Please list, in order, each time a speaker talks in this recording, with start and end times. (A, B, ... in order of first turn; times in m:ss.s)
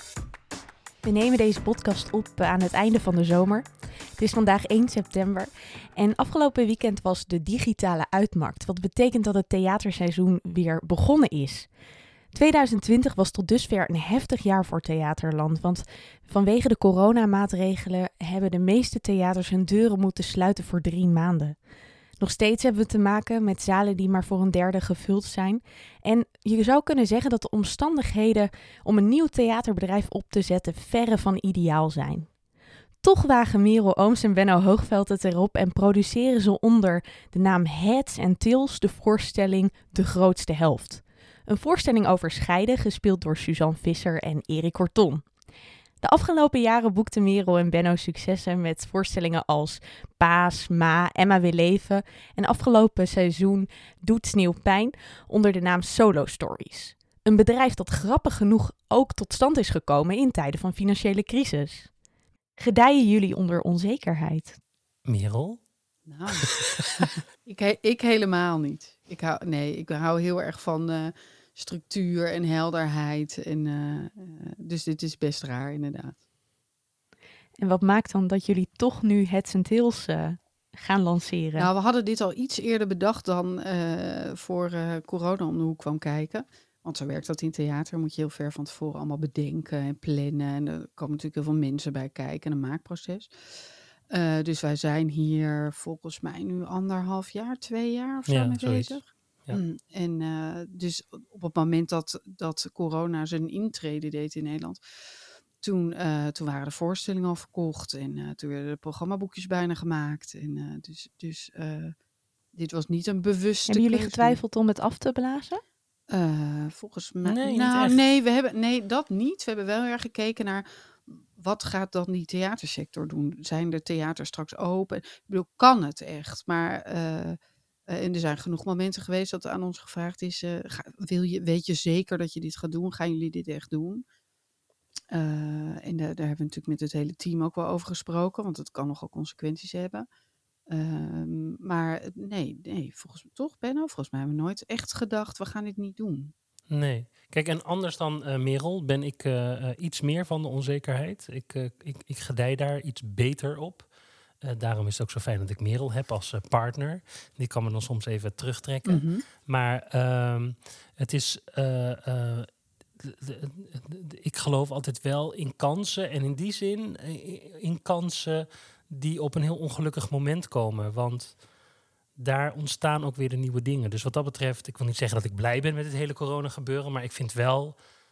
0:01.0-0:11.7 A
0:12.3-0:21.6 A
0:22.2-0:32.3 A
0:33.0-0:45.2 A
0:46.0-1:01.9 A
1:02.6-1:04.6 A
1:05.0-1:05.6 B
1:06.1-1:16.2 C
1:06.4-1:07.0 B
1:17.6-1:21.7 A
1:21.6-1:33.3 C
1:34.1-1:44.8 C
1:38.3-1:39.6 B
1:45.6-1:51.9 C
1:52.5-1:54.4 C
1:53.7-1:55.6 A
1:56.1-2:14.0 C
1:57.2-1:58.0 B
2:15.1-2:20.1 C
2:20.7-2:26.3 C
2:26.7-2:33.9 B
2:34.4-2:42.5 B
2:38.8-2:39.2 C
2:43.0-2:51.3 B
2:52.2-2:57.8 B